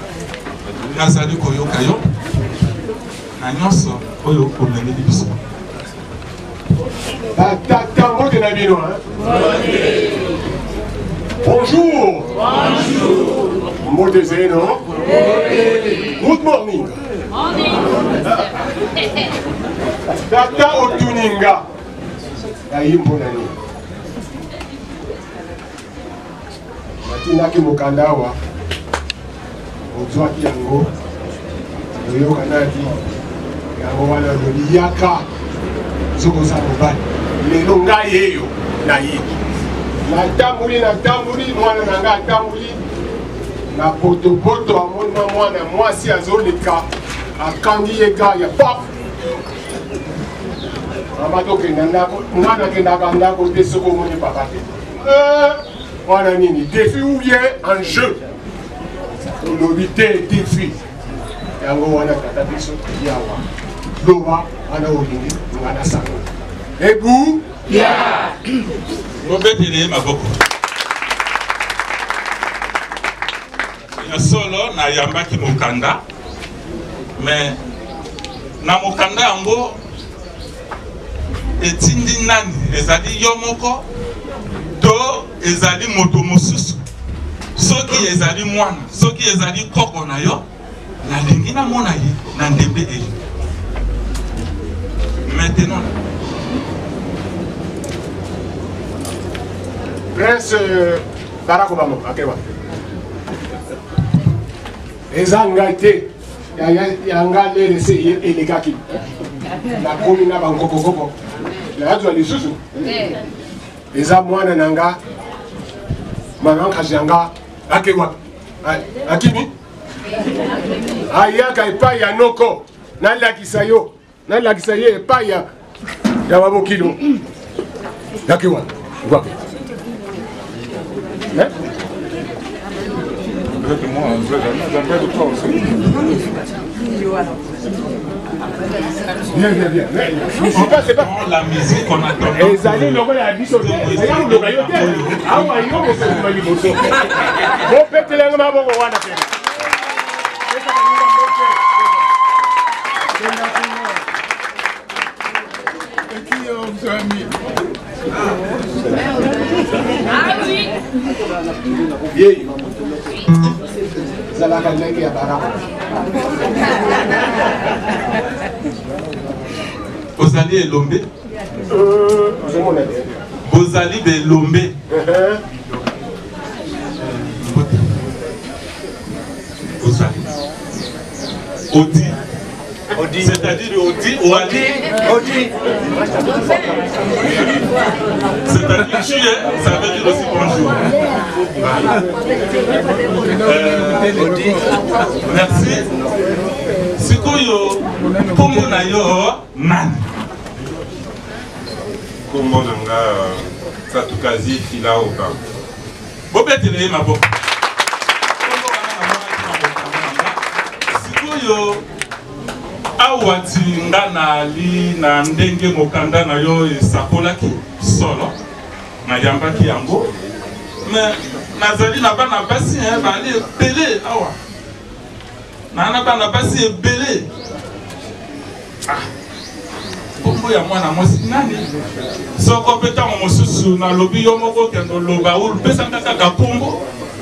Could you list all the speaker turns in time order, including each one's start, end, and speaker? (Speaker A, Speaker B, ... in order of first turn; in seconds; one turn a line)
Speaker A: 0.9-2.0
Speaker A: 3.4-5.4
Speaker B: 7.3-9.0
Speaker B: 11.4-12.3
Speaker B: 13.8-14.8
Speaker B: 16.1-17.0
Speaker B: 20.3-21.6
Speaker B: 22.7-23.5
Speaker B: 27.0-28.4
Speaker B: 29.9-30.9
Speaker B: 32.0-33.0
Speaker B: 33.8-35.2
Speaker B: 36.1-39.3
Speaker B: 40.0-42.8
Speaker B: 43.7-46.8
Speaker B: 47.4-48.9
Speaker B: 51.2-58.2
Speaker B: 59.4-60.8
Speaker B: 61.6-63.4
Speaker B: 64.0-66.2
Speaker B: 66.8-67.5
Speaker A: 69.2-70.4
Speaker A: 74.0-76.0
Speaker A: 77.2-77.6
Speaker A: 78.6-79.8
Speaker A: 81.6-83.8
Speaker A: 84.8-86.8
Speaker A: 87.5-90.4
Speaker A: 91.0-93.2
Speaker A: 95.2-95.9
Speaker B: 100.1-102.4
Speaker B: 105.1-108.8
Speaker B: 109.8-111.1
Speaker B: 111.7-112.6
Speaker B: 113.9-115.0
Speaker B: 116.4-119.5
Speaker B: 121.1-125.5
Speaker B: 126.2-127.0
Speaker B: 128.2-129.3
Speaker A: 133.6-134.3
Speaker B: 139.3-141.1
Speaker A: 140.5-145.7
Speaker B: 142.3-149.3
Speaker B: 150.5-151.8
Speaker B: 153.2-153.7
Speaker B: 156.3-157.2
Speaker B: 162.1-162.5
Speaker B: 164.3-165.7
Speaker A: 170.2-171.1
Speaker B: 171.7-173.1
Speaker A: 173.5-174.7
Speaker B: 174.9-175.4
Speaker A: 177.4-177.9
Speaker A: 179.8-180.3
Speaker A: 181.7-182.2
Speaker A: 183.1-184.8
Speaker B: 185.9-187.4
Speaker A: 188.4-190.9
Speaker A: 193.4-194.2
Speaker A: 195.2-195.8
Speaker A: 197.0-200.0
Speaker C: 202.3-205.4
Speaker A: 206.3-207.3
Speaker A: 208.4-210.4
Speaker A: 210.9-211.8
Speaker A: 213.0-218.3
Speaker A: 219.0-220.1
Speaker A: 220.8-224.3
Speaker A: 225.7-227.3
Speaker A: 230.2-231.7
Speaker A: 232.4-236.8